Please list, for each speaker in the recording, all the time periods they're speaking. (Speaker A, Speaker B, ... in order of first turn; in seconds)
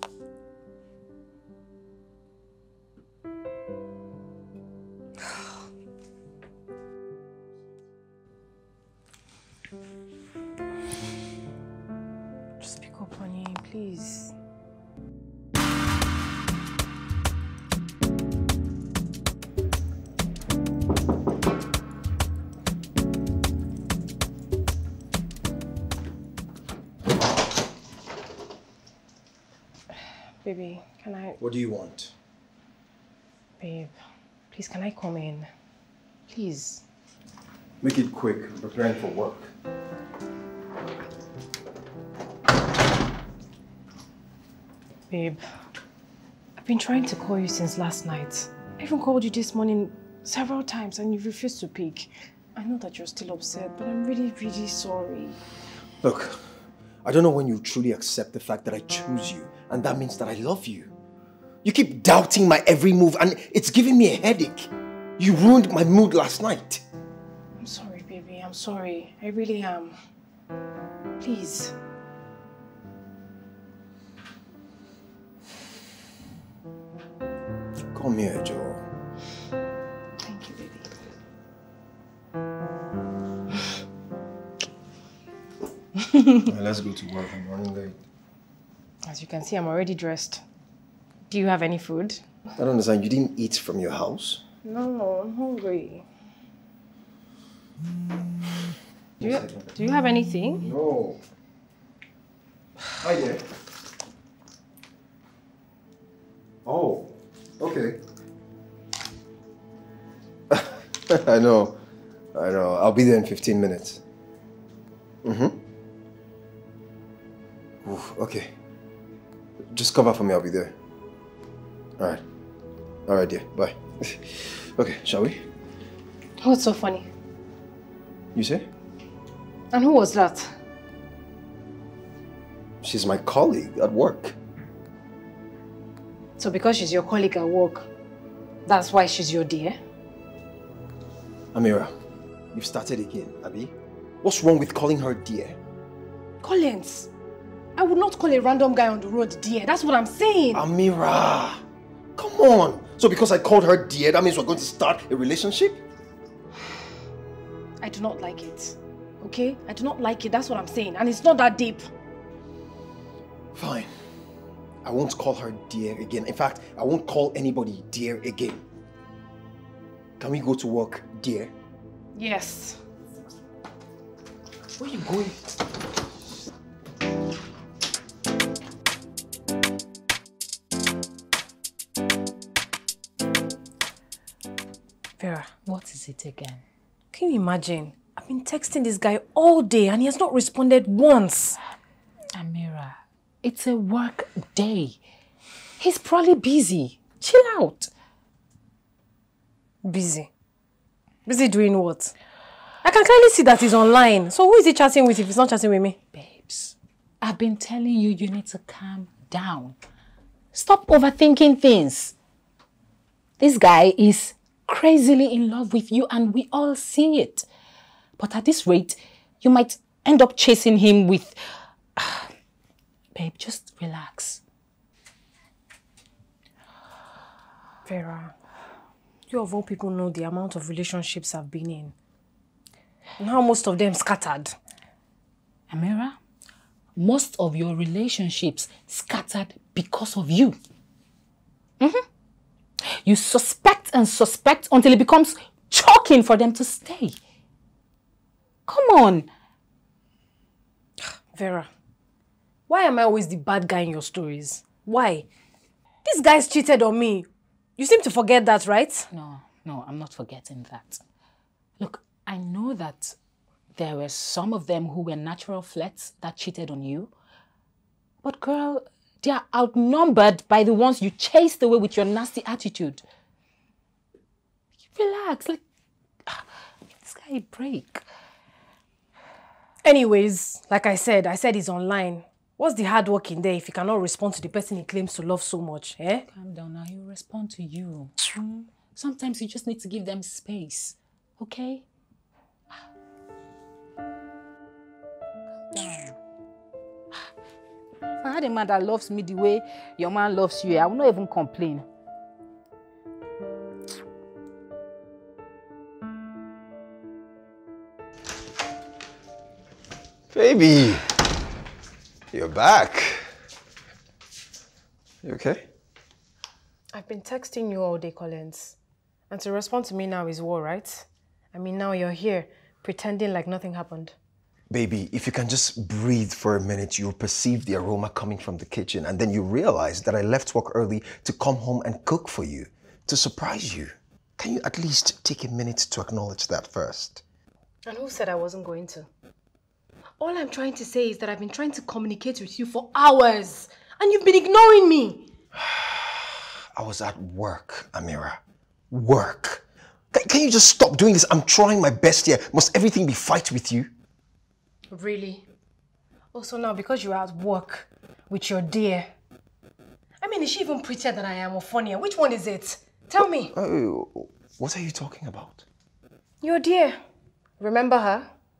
Speaker A: 12.6-14.3, 30.4-31.4, 33.6-33.9, 34.5-35.5, 36.3-36.8, 45.1-45.4, 46.6-55.4, 67.6-70.0, 71.2-71.8, 80.2-81.1, 89.0-90.4, 91.3-92.2, 94.6-96.0, 99.2-100.7, 126.4-127.1, 129.7-130.6, 136.4-137.9, 138.7-139.8, 146.4-147.1, 147.8-150.7, 157.8-161.9, 172.2-172.8, 185.2-185.5, 187.1-191.6, 199.8-200.3, 201.3-202.1, 202.8-206.0, 227.9-228.3, 229.3-231.9, 233.2-234.6, 251.3-251.7, 252.7-255.3, 256.1-259.1, 279.8-286.2, 316.9-318.8, 319.3-324.1, 337.9-339.1, 340.2-345.3, 354.9-355.5, 356.3-359.1, 360.2-363.6, 366.4-367.0, 367.6-368.3
Speaker B: 31.4-32.1, 37.8-39.5, 56.0-60.9, 61.6-66.8, 77.9-78.8, 86.4-88.0, 92.6-94.4, 99.2-99.7, 100.6-101.2, 103.0-103.4, 106.7-108.0, 110.5-111.8, 112.3-114.0, 115.2-115.6, 117.8-118.5, 119.7-120.8, 122.0-122.2, 123.1-125.5, 128.3-128.7, 132.8-134.4, 141.5-141.9, 142.5-145.6, 150.5-151.6, 152.2-155.8, 163.6-163.9, 164.8-168.7, 170.2-171.5, 310.3-311.1, 312.3-313.3, 315.2-315.7, 324.7-337.2, 345.6-353.9, 363.5-365.7
Speaker C: 174.8-175.4, 185.7-186.6, 192.3-195.0, 195.8-197.9, 206.1-209.8, 210.5-212.1, 213.4-217.5, 218.2-221.4, 222.0-222.3, 223.2-224.4, 235.7-236.2, 237.0-240.6, 241.8-242.1, 242.9-247.2, 248.7-249.3, 259.1-261.0, 261.8-263.2, 263.8-267.1, 268.2-273.0, 274.9-275.6, 277.0-278.1, 286.3-291.9, 295.7-296.2, 298.2-301.9